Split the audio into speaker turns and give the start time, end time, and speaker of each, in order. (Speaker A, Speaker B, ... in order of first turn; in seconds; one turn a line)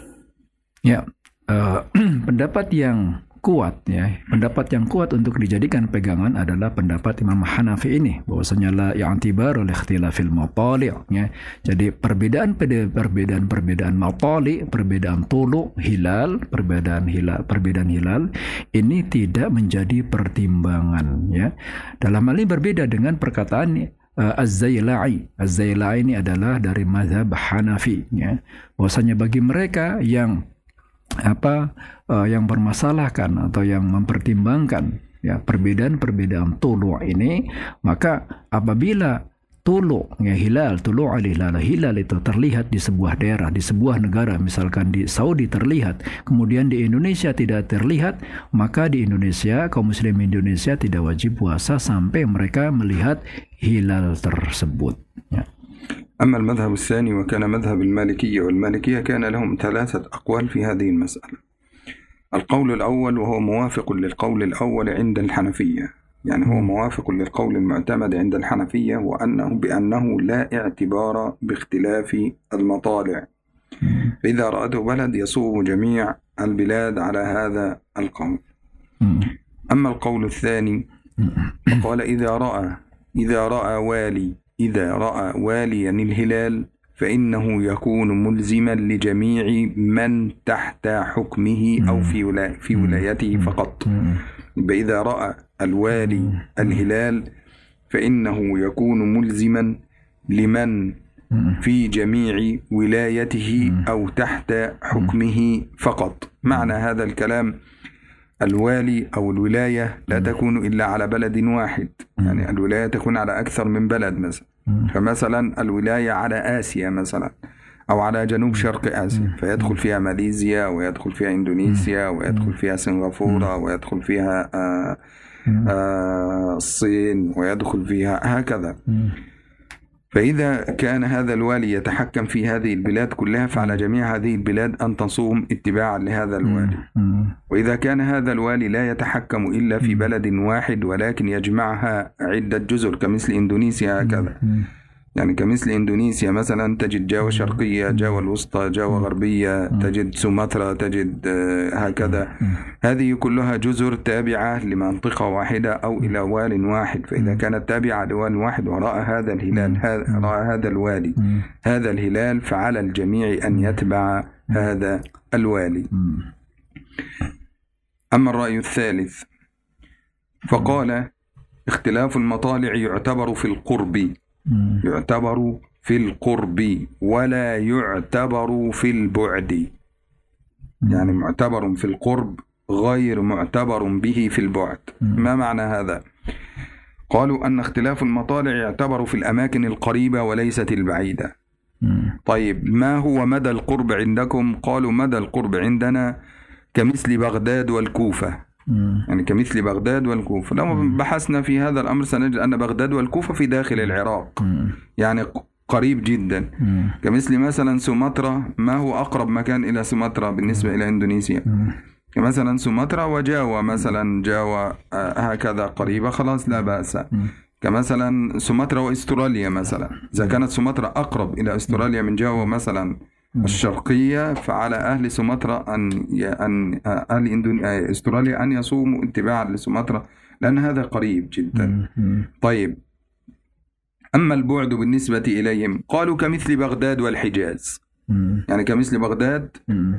Speaker A: 0.8-30.4
Speaker A: 31.2-55.5
Speaker B: 56.2-61.4
Speaker B: 62.3-73.3
Speaker B: 74.2-78.4
Speaker A: 79.0-79.3
Speaker B: 79.7-80.8
Speaker B: 81.7-94.0
Speaker B: 94.6-97.3
Speaker B: 97.9-99.8
Speaker B: 100.3-101.0
Speaker B: 101.6-107.5
Speaker B: 108.4-117.3
Speaker B: 117.9-125.0
Speaker B: 125.6-128.8
Speaker B: 130.1-136.8
Speaker A: 136.5-137.3
Speaker B: 137.5-144.4
Speaker B: 145.1-165.9
Speaker B: 168.1-169.3
Speaker B: 170.4-171.1
Speaker B: 171.7-174.2
Speaker A: 174.5-174.8
Speaker B: 174.8-179.7
Speaker B: 180.9-186.0
Speaker B: 187.1-191.3
Speaker A: 191.8-192.1
Speaker B: 192.2-196.2
Speaker B: 196.7-198.4
Speaker A: 198.7-199.0
Speaker B: 199.1-204.4
Speaker A: 204.4-204.7
Speaker B: 205.0-211.5
Speaker A: 206.6-206.9
Speaker B: 212.1-231.8
Speaker A: 231.6-232.2
Speaker B: 232.4-232.8
Speaker B: 234.1-237.8
Speaker A: 238.1-238.4
Speaker B: 238.5-239.6